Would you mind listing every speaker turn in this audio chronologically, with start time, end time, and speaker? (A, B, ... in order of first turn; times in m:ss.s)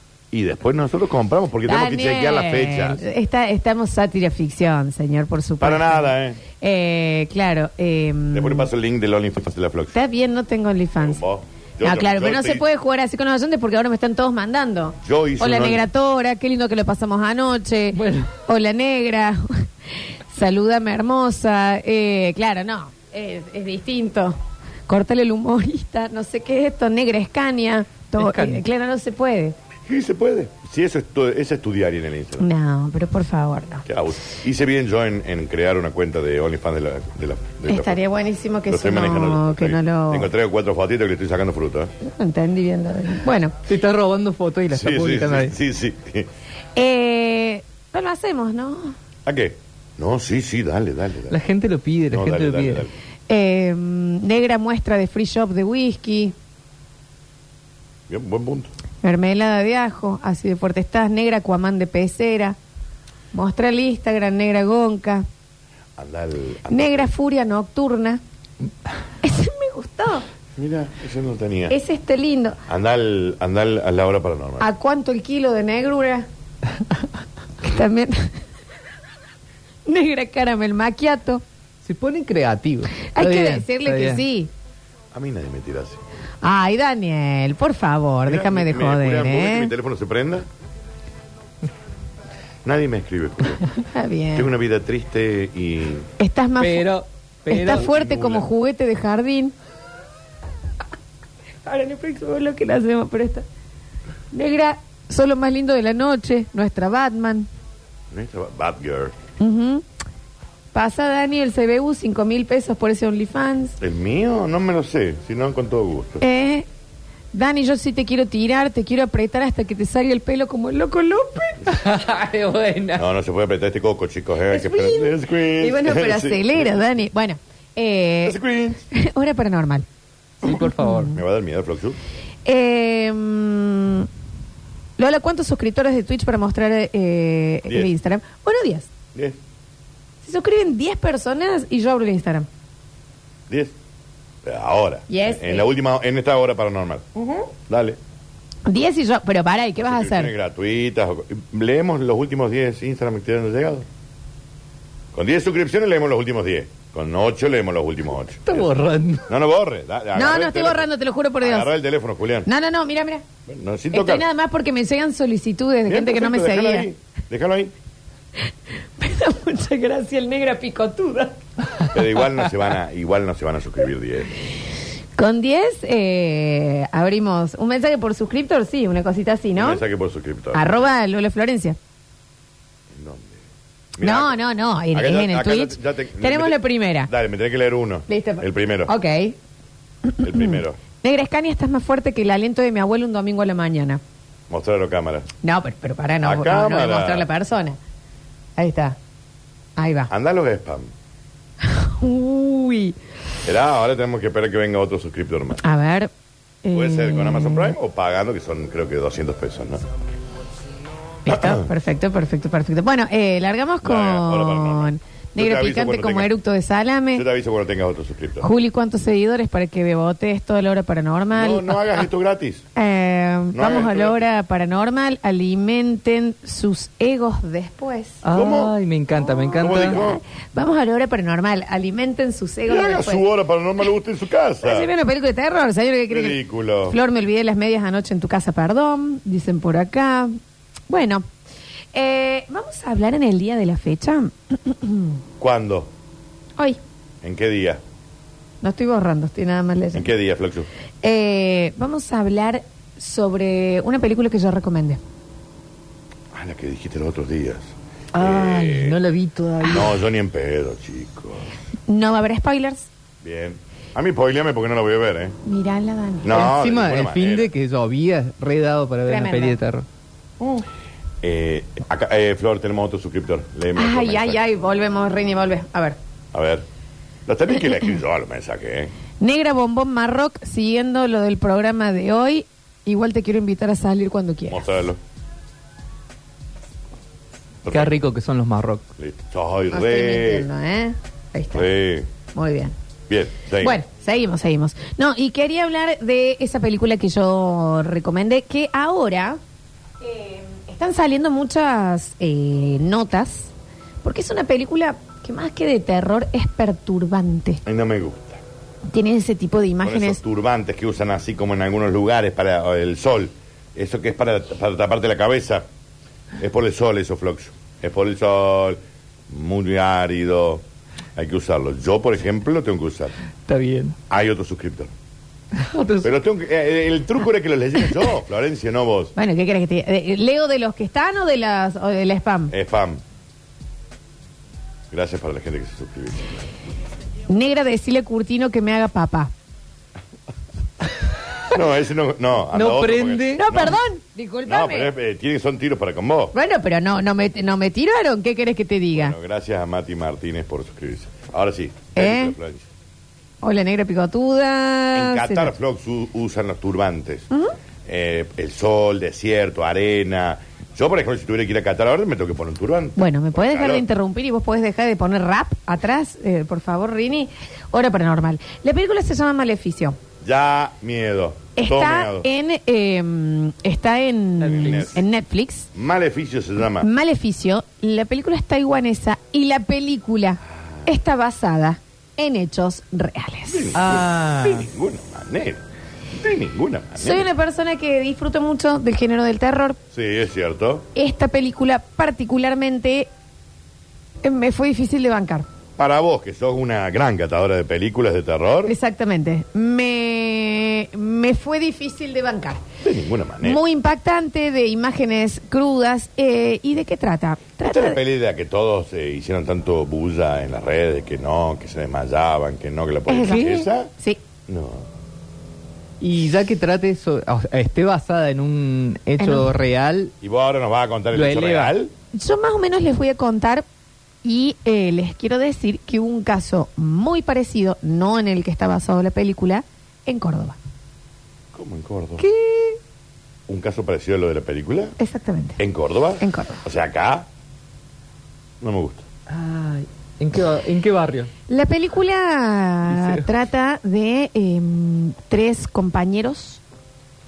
0:00.3-0:03.0 A
0:01.6-0:08.7 B
0:05.6-0:06.4 A
0:08.3-0:10.0 A
0:09.9-0:11.2 B
0:11.0-0:12.6 A
0:11.8-0:29.6 B
0:15.0-0:15.9 A
0:17.9-0:18.3 C
0:28.2-0:28.6 C
0:29.9-0:32.4 A
0:32.4-0:33.8 B
0:33.8-0:38.0 A
0:37.6-0:40.3 B
0:38.7-0:41.9 A
0:42.0-0:43.6 B
0:43.7-0:45.5 C
0:44.7-0:46.3 A
0:46.8-0:49.0 B
0:49.2-0:51.4 A
0:51.3-0:52.8 C
0:52.1-0:52.9 A
0:53.3-0:56.3 B
0:58.1-0:58.7 A
0:59.0-1:02.6 B
1:03.3-1:05.3 B
1:06.0-1:07.1 A
1:06.7-1:08.2 B
1:09.2-1:10.2 B
1:10.6-1:11.8 A
1:11.7-1:12.6 B
1:12.7-1:14.7 A
1:14.6-1:16.3 B
1:17.6-1:18.3 B
1:19.8-1:21.4 B
1:21.8-1:24.2 C
1:23.1-1:24.5 B
1:25.1-1:26.0 A
1:26.4-1:29.7 B
1:28.3-1:30.5 A
1:32.6-1:33.7 A
1:33.9-1:34.5 B
1:34.3-1:36.1 A
1:36.2-1:36.9 B
1:36.6-1:37.8 C
1:37.5-1:39.5 B
1:37.7-1:38.4 A
1:41.6-1:43.4 B
1:44.3-1:47.5 B
1:48.1-1:49.2 A
1:49.4-1:49.8 B
1:50.7-1:53.8 B
1:53.8-1:56.2 A
1:56.2-1:56.7 B
1:57.3-2:01.7 B
2:01.6-2:03.0 C
2:03.0-2:06.7 A
2:04.5-2:08.4 B
2:08.2-2:08.8 A
2:08.9-2:09.8 B
2:10.4-2:11.1 C
2:10.4-2:11.2 B
2:11.1-2:12.0 A
2:12.4-2:14.1 B
2:15.0-2:18.9 B
2:19.1-2:19.4 A
2:20.2-2:22.5 B
2:23.5-2:23.7 A
2:24.4-2:27.0 A
2:25.1-2:25.7 B
2:27.1-2:27.5 B
2:27.7-2:28.0 A
2:28.6-2:30.3 B
2:29.8-2:33.9 A
2:35.1-2:38.7 A
2:38.5-2:39.3 C
2:39.3-2:40.9 A
2:40.1-2:41.7 B
2:41.4-2:42.5 A
2:42.4-2:43.2 B
2:43.5-2:44.2 A
2:43.9-2:46.9 B
2:45.9-2:47.7 A
2:49.0-2:51.4 B
2:51.8-2:54.3 A
2:55.2-2:59.8 B
2:59.6-3:00.8 A
3:00.5-3:01.8 B
3:02.9-3:03.4 A
3:04.0-3:04.4 A
3:04.0-3:07.1 B
3:04.9-3:08.9 A
3:08.1-3:09.4 B
3:10.0-3:14.0 B
3:10.2-3:10.8 A
3:14.5-3:15.3 A
3:15.4-3:17.8 B
3:16.2-3:17.3 A
3:18.6-3:19.0 B
3:19.8-3:20.1 B
3:20.1-3:20.9 A
3:21.6-3:23.0 B
3:23.4-3:25.6 A
3:25.6-3:26.1 B
3:26.6-3:27.7 B
3:26.7-3:29.8 A
3:31.2-3:37.2 B
3:31.3-3:31.7 A
3:33.8-3:36.3 A
3:37.1-3:38.5 A
3:38.4-3:42.0 B
3:41.3-3:42.6 A
3:42.7-3:48.2 B
3:43.5-3:44.2 A
3:48.2-3:50.0 C
3:48.3-3:48.7 A
3:49.5-3:53.2 B
3:49.6-3:50.2 A
3:52.6-3:54.9 A
3:54.6-4:00.4 B
3:56.1-3:57.0 A
4:00.9-4:01.2 B
4:01.9-4:05.2 B
4:05.4-4:05.9 A
4:07.2-4:07.8 A
4:08.6-4:10.1 B
4:09.9-4:10.7 A
4:11.0-4:15.0 B
4:16.3-4:19.0 A
4:18.1-4:20.0 C
4:19.6-4:21.5 A
4:21.9-4:22.9 B
4:23.2-4:25.4 A
4:25.4-4:26.4 B
4:26.2-4:27.5 A
4:26.3-4:29.8 C
4:29.0-4:29.6 B
4:30.4-4:30.6 B
4:31.2-4:34.5 A
4:33.7-4:36.0 B
4:36.3-4:36.6 A
4:37.2-4:38.9 A
4:39.2-4:44.8 B
4:44.5-4:45.0 A
4:47.6-4:48.0 A
4:47.7-4:48.8 C
4:49.0-4:50.5 A
4:49.7-4:51.7 B
4:51.5-4:52.1 A
4:52.3-4:52.7 B
4:53.1-4:53.8 A
4:53.6-4:59.4 B
5:00.0-5:03.5 B
5:04.0-5:07.6 B
5:07.6-5:08.4 A
5:08.9-5:10.2 B
5:09.8-5:15.6 A
5:16.4-5:20.6 A
5:21.2-5:23.1 A
5:23.5-5:24.0 C
5:24.1-5:24.9 A
5:25.5-5:26.1 C
5:26.0-5:29.1 A
5:29.2-5:32.5 B
5:32.5-5:33.0 A
5:34.9-5:36.4 A
5:37.3-5:39.3 B
5:41.5-5:43.8 A
5:42.5-5:43.5 C
5:43.4-5:44.9 B
5:44.4-5:46.3 A
5:46.3-5:49.2 B
5:48.9-5:52.7 A
5:52.0-5:52.4 B
5:53.4-5:55.5 B
5:54.9-5:57.3 A
5:57.8-6:03.8 A
6:03.0-6:10.0 B
6:10.2-6:12.3 A
6:11.6-6:15.7 B
6:14.4-6:14.9 C
6:14.4-6:15.0 A
6:15.7-6:16.9 A
6:16.8-6:23.8 B
6:20.5-6:20.9 A
6:23.5-6:25.6 A
6:23.7-6:24.7 C
6:26.2-6:27.3 A
6:27.0-6:29.8 B
6:29.9-6:30.8 A
6:30.9-6:33.1 B
6:34.2-6:35.5 B
6:35.8-6:38.7 A
6:38.6-6:42.6 B
6:42.8-6:43.6 A
6:43.4-6:48.0 B
6:47.6-6:53.9 A
6:53.1-6:54.2 B
6:54.5-6:54.9 A
6:56.0-7:00.1 C
6:59.2-6:59.5 B
7:00.2-7:01.9 A
7:01.1-7:01.7 C
7:02.1-7:03.6 B
7:04.2-7:10.6 B
7:11.5-7:12.2 A
7:12.3-7:12.8 B
7:13.5-7:15.0 A
7:15.0-7:15.6 B
7:15.6-7:17.3 A
7:16.2-7:16.6 B
7:18.6-7:19.0 A
7:19.3-7:21.3 C
7:21.5-7:26.6 B
7:22.9-7:23.3 C